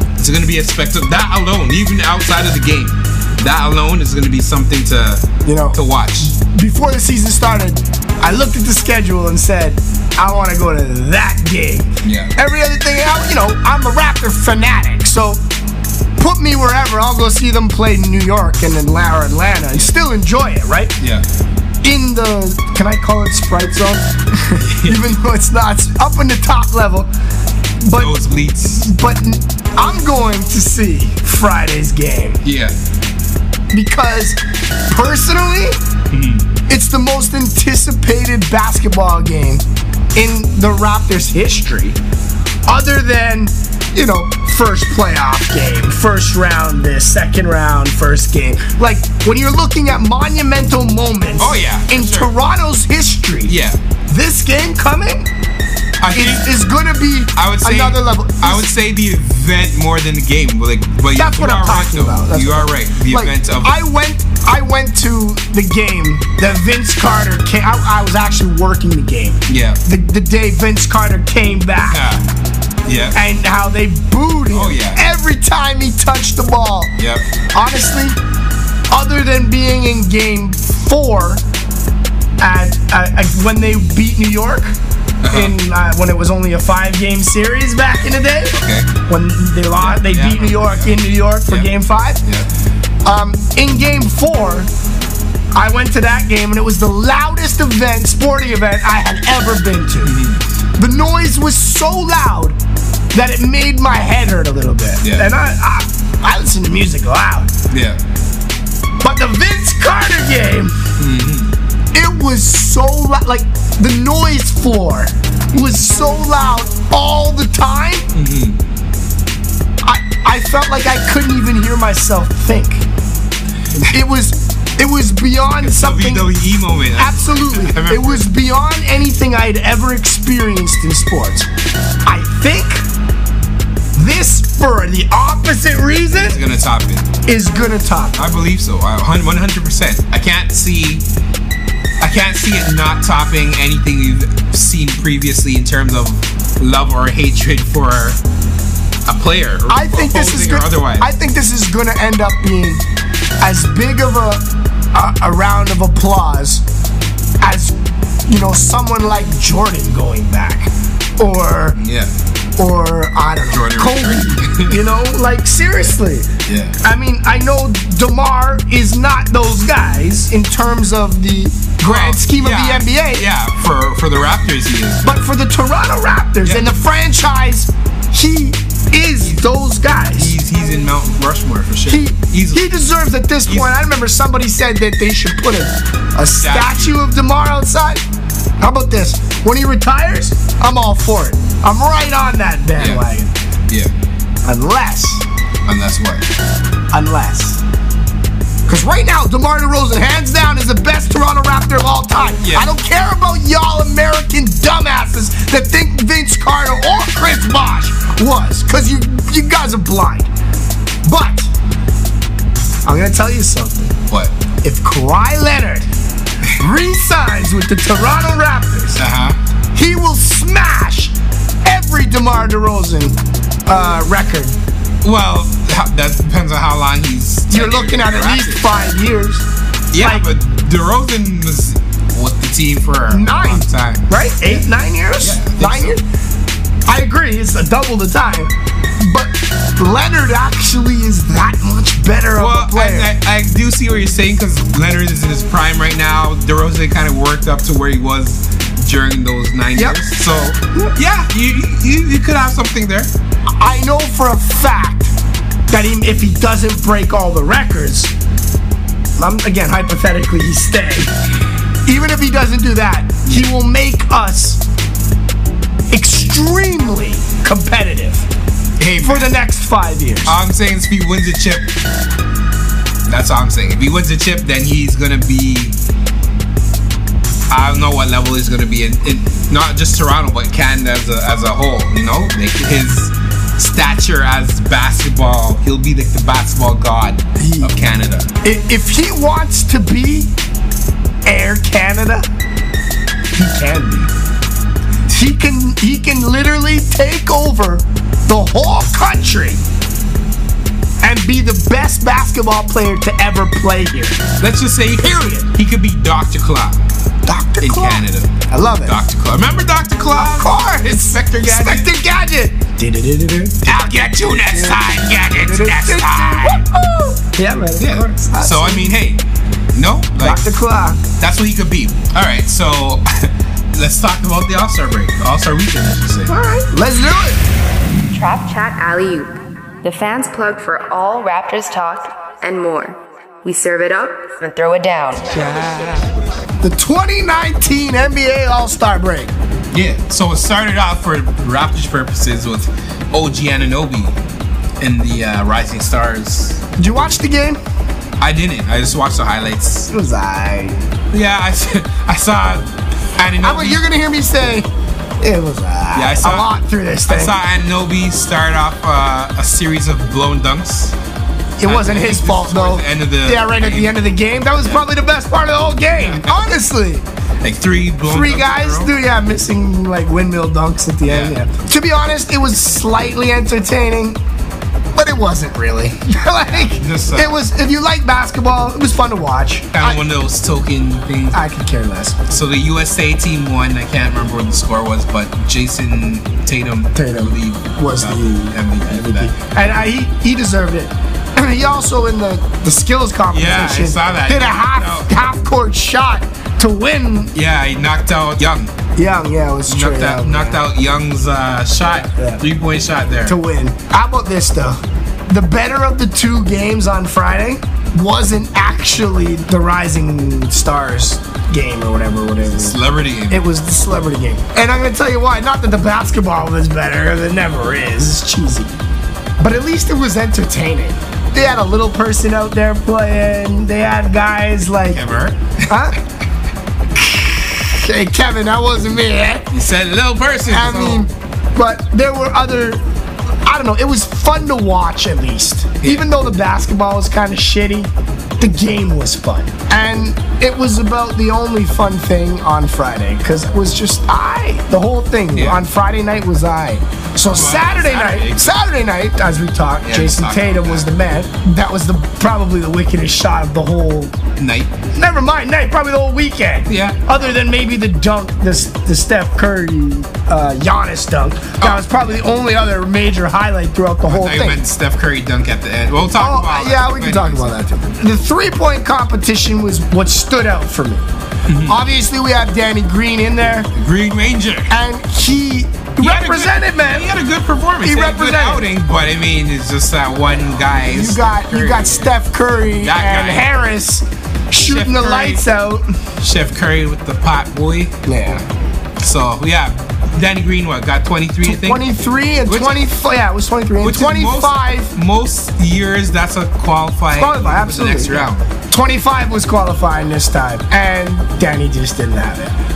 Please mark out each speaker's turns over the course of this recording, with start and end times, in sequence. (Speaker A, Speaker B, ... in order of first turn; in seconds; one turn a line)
Speaker A: 0.2-6.3
Speaker B: 5.4-15.4
Speaker A: 12.0-12.3
Speaker B: 16.2-20.9
Speaker A: 21.0-21.2
Speaker B: 21.8-27.1
Speaker A: 24.6-25.1
Speaker B: 27.8-28.2
Speaker A: 27.9-28.9
Speaker B: 28.7-32.4
Speaker A: 32.4-32.8
Speaker B: 33.7-35.8
Speaker A: 36.1-36.5
Speaker B: 36.7-42.0
Speaker B: 42.7-53.5
Speaker A: 51.4-52.3
Speaker A: 53.5-53.8
Speaker B: 54.1-55.3
Speaker A: 56.0-56.6
Speaker B: 56.1-58.7
Speaker A: 57.3-63.8
Speaker B: 61.1-72.1
Speaker A: 69.5-69.8
Speaker A: 71.9-72.2
Speaker A: 72.8-73.2
Speaker B: 73.1-77.0
Speaker A: 74.5-75.0
Speaker A: 77.0-77.2
Speaker B: 77.5-78.2
Speaker B: 78.9-81.4
Speaker B: 82.4-92.2
Speaker A: 85.2-85.5
Speaker A: 88.5-88.9
Speaker A: 89.8-92.5
Speaker B: 93.0-94.7
Speaker B: 95.5-100.2
Speaker A: 100.0-100.4
Speaker B: 100.8-102.6
Speaker B: 103.1-107.5
Speaker A: 105.0-105.3
Speaker A: 107.7-108.0
Speaker B: 109.0-110.8
Speaker A: 111.0-111.5
Speaker B: 111.9-118.1
Speaker A: 118.1-118.6
Speaker B: 119.8-122.8
Speaker B: 123.9-126.3
Speaker A: 125.6-128.3
Speaker B: 126.9-131.5
Speaker B: 132.0-132.8
Speaker B: 133.9-136.4
Speaker A: 136.1-137.1
Speaker B: 137.2-138.3
Speaker A: 138.2-141.1
Speaker A: 142.0-148.2
Speaker A: 149.0-151.1
Speaker B: 149.7-152.8
Speaker B: 153.4-156.6
Speaker B: 157.4-157.8
Speaker B: 158.3-161.8
Speaker A: 161.7-162.1
Speaker B: 162.6-173.2
Speaker A: 163.5-164.9
Speaker A: 166.4-166.8
Speaker A: 171.8-175.2
Speaker B: 175.0-180.3
Speaker A: 180.1-182.7
Speaker B: 181.9-188.0
Speaker A: 183.4-183.8
Speaker A: 186.4-187.0
Speaker B: 188.6-193.3
Speaker A: 192.8-193.0
Speaker B: 194.4-195.2
Speaker A: 195.6-196.2
Speaker B: 196.9-197.6
Speaker B: 198.7-210.3
Speaker A: 202.4-202.7
Speaker B: 211.0-211.5
Speaker B: 212.8-213.9
Speaker B: 214.6-215.9
Speaker B: 216.5-219.0
Speaker A: 218.9-219.4
Speaker B: 219.7-224.6
Speaker A: 225.0-228.6
Speaker B: 227.5-230.2
Speaker A: 229.9-236.0
Speaker B: 233.1-236.0
Speaker B: 236.8-243.1
Speaker A: 242.3-253.1
Speaker B: 249.7-250.0
Speaker B: 253.6-255.1
Speaker B: 255.7-258.1
Speaker B: 259.2-261.1
Speaker B: 261.9-264.6
Speaker B: 265.9-268.3
Speaker A: 268.8-269.3
Speaker B: 269.0-270.4
Speaker A: 270.2-271.7
Speaker A: 273.1-275.8
Speaker A: 277.5-288.3
Speaker B: 287.4-287.8
Speaker B: 288.4-290.3
Speaker B: 291.2-292.3
Speaker B: 293.3-294.1
Speaker B: 295.1-299.6
Speaker B: 301.0-304.2
Speaker A: 304.4-306.8
Speaker B: 305.0-305.5
Speaker B: 307.2-309.0
Speaker A: 307.6-311.9
Speaker B: 310.1-318.9
Speaker A: 313.6-316.6
Speaker A: 317.8-320.5
Speaker B: 320.2-321.0
Speaker A: 321.2-326.3
Speaker B: 326.3-327.4
Speaker C: 328.1-335.5
Speaker B: 336.6-339.3
Speaker A: 339.7-344.2
Speaker A: 344.8-346.6
Speaker B: 346.8-347.6
Speaker A: 348.2-349.9
Speaker B: 349.9-350.8
Speaker A: 351.1-353.8
Speaker B: 353.4-354.7
Speaker B: 355.2-357.4
Speaker A: 355.9-356.5
Speaker A: 357.1-360.9
Speaker B: 361.6-367.0
Speaker A: 361.6-364.0
Speaker A: 365.9-366.4
Speaker A: 367.4-368.9
Speaker B: 368.0-374.2
Speaker A: 371.1-371.4
Speaker B: 374.9-380.0
Speaker A: 376.4-377.4
Speaker A: 379.7-381.4
Speaker B: 381.3-382.2
Speaker A: 382.3-389.3
Speaker B: 386.9-397.3
Speaker A: 393.3-395.1
Speaker A: 397.3-398.7
Speaker B: 398.9-400.6
Speaker A: 399.7-403.4
Speaker B: 402.1-402.4
Speaker B: 403.2-412.8
Speaker A: 412.4-413.5
Speaker B: 413.3-418.8
Speaker B: 419.4-425.0
Speaker A: 424.8-425.9
Speaker B: 425.7-426.0
Speaker B: 426.9-429.5
Speaker A: 429.5-431.1
Speaker B: 430.5-432.8
Speaker B: 433.4-454.1
Speaker A: 435.8-436.1
Speaker A: 445.3-445.6
Speaker A: 447.2-448.6
Speaker A: 449.8-450.9
Speaker A: 454.4-454.8
Speaker B: 454.9-464.6
Speaker A: 456.7-457.2
Speaker A: 461.6-462.0
Speaker A: 464.1-467.6
Speaker B: 466.1-471.1
Speaker A: 471.5-471.8
Speaker B: 471.6-473.7
Speaker A: 473.7-474.7
Speaker B: 474.7-477.1
Speaker A: 476.0-482.2
Speaker B: 477.8-478.7
Speaker B: 480.7-485.9
Speaker A: 482.8-483.5
Speaker A: 484.6-485.4
Speaker A: 486.2-488.0
Speaker B: 488.0-488.4
Speaker A: 489.0-491.8
Speaker B: 491.4-494.9
Speaker A: 492.4-492.9
Speaker A: 493.8-498.5
Speaker B: 497.1-502.5